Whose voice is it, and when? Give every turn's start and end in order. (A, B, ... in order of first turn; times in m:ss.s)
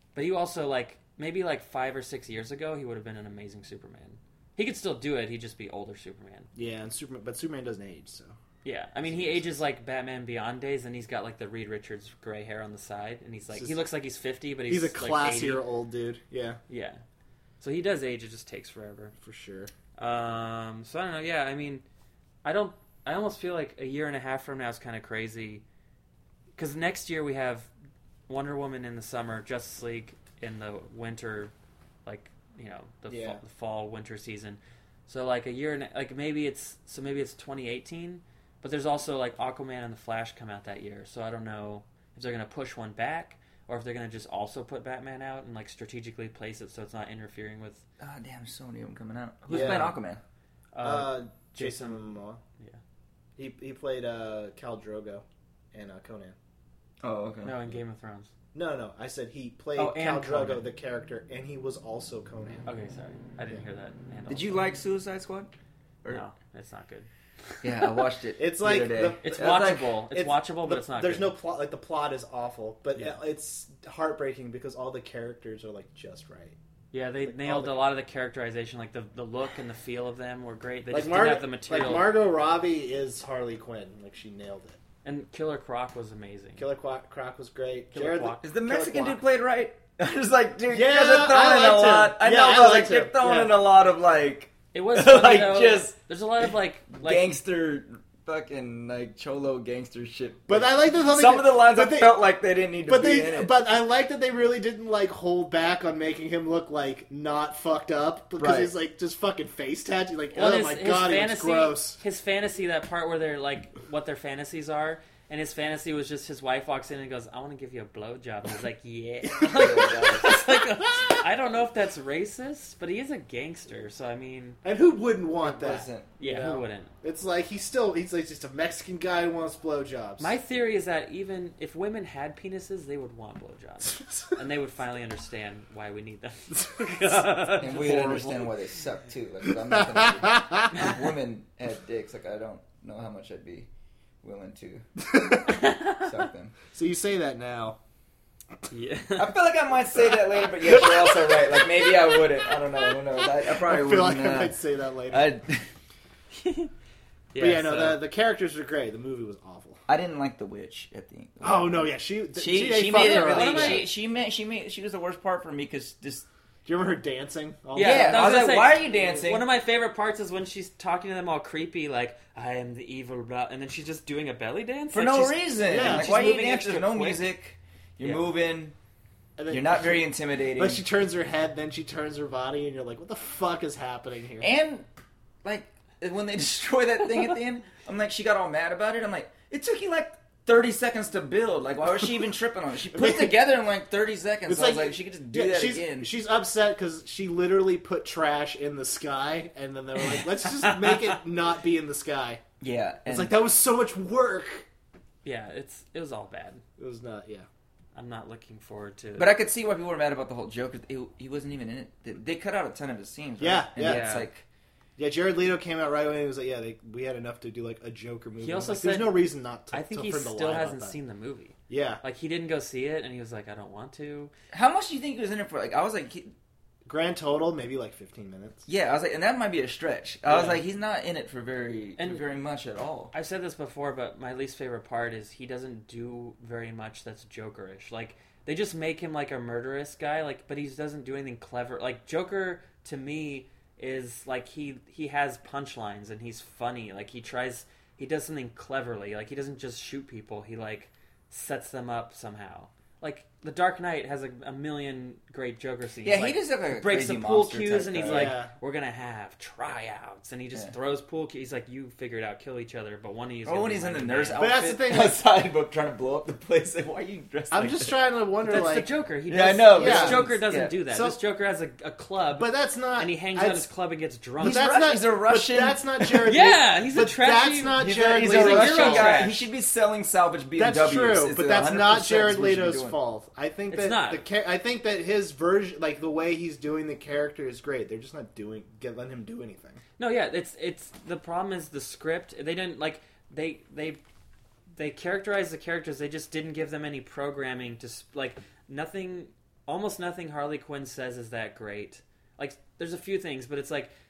0:00.1-0:06.5 A
0:06.5-0:08.4 B
0:08.6-0:15.6 A
0:09.0-0:09.4 B
0:14.7-0:16.6 B
0:16.7-0:17.0 A
0:17.6-0:19.1 A
0:19.2-0:19.7 B
0:20.0-0:21.8 A
0:22.4-0:25.6 A
0:26.6-0:27.7 A
0:28.3-0:31.5 A
0:32.0-0:47.8 A
0:33.1-0:33.4 B
0:48.0-0:50.2 C
0:49.5-0:50.0 A
0:49.5-0:50.0 B
0:50.7-0:52.0 A
0:50.8-0:52.4 B
0:53.4-0:56.4 B
0:57.0-0:57.6 C
0:57.4-0:58.3 A
0:58.5-1:02.6 B
0:59.8-1:00.6 A
1:02.6-1:04.6 A
1:04.3-1:05.5 C
1:06.1-1:07.6 A
1:07.6-1:09.9 C
1:08.4-1:16.6 B
1:09.2-1:11.3 A
1:16.9-1:22.1 A
1:17.2-1:17.8 B
1:20.9-1:24.8 B
1:25.0-1:26.6 A
1:26.6-1:29.2 B
1:27.9-1:28.6 A
1:28.4-1:43.5 C
1:30.7-1:33.5 B
1:34.7-1:37.2 A
1:40.5-1:42.2 B
1:42.9-1:52.0 B
1:48.4-1:48.7 C
1:50.4-2:04.6 A
1:59.4-2:00.1 B
1:59.4-2:00.4 C
2:00.8-2:01.2 B
2:04.6-2:10.4 B
2:05.4-2:06.1 C
2:06.2-2:06.9 A
2:10.2-2:18.5 A
2:17.5-2:23.7 C
2:19.4-2:20.9 B
2:24.2-2:26.6 C
2:25.1-2:25.6 B
2:25.5-2:26.0 A
2:26.7-2:27.8 B
2:28.7-2:29.4 A
2:29.2-2:35.7 C
2:30.6-2:31.4 B
2:33.2-2:35.3 B
2:36.3-2:36.7 A
2:37.3-2:38.0 A
2:37.4-2:39.8 B
2:39.9-2:46.2 C
2:41.4-2:43.9 B
2:42.9-2:43.9 A
2:46.6-2:48.5 B
2:47.7-2:57.2 A
2:47.8-2:49.4 C
2:54.9-2:58.7 C
2:55.7-2:56.2 B
2:59.4-3:04.5 B
2:59.5-3:00.8 C
3:04.4-3:04.8 C
3:05.4-3:16.1 C
3:12.9-3:13.4 B
3:14.5-3:22.4 B
3:20.0-3:21.2 A
3:22.6-3:23.3 C
3:23.0-3:24.6 B
3:25.2-3:26.6 A
3:26.8-3:27.5 B
3:27.9-3:29.3 A
3:29.2-3:34.4 C
3:33.4-3:34.1 B
3:33.8-3:34.3 A
3:35.0-3:41.0 B
3:38.4-3:44.3 A
3:41.7-3:42.0 B
3:44.5-3:46.3 C
3:46.9-3:48.6 B
3:48.7-3:53.1 C
3:50.3-3:50.6 A
3:52.0-3:52.2 A
3:53.1-4:24.4 A
4:16.0-4:18.4 C
4:18.0-4:18.5 B
4:23.4-4:27.9 C
4:24.4-4:25.2 B
4:27.5-4:28.9 B
4:28.4-4:34.6 A
4:29.3-4:30.8 C
4:29.7-4:30.3 B
4:30.9-4:31.2 B
4:32.4-4:33.7 B
4:34.4-4:36.3 C
4:34.4-4:39.3 B
4:36.3-4:39.4 A
4:37.8-4:43.0 C
4:40.6-4:49.8 B
4:43.7-4:44.2 A
4:50.0-4:54.0 A
4:54.7-5:03.9 A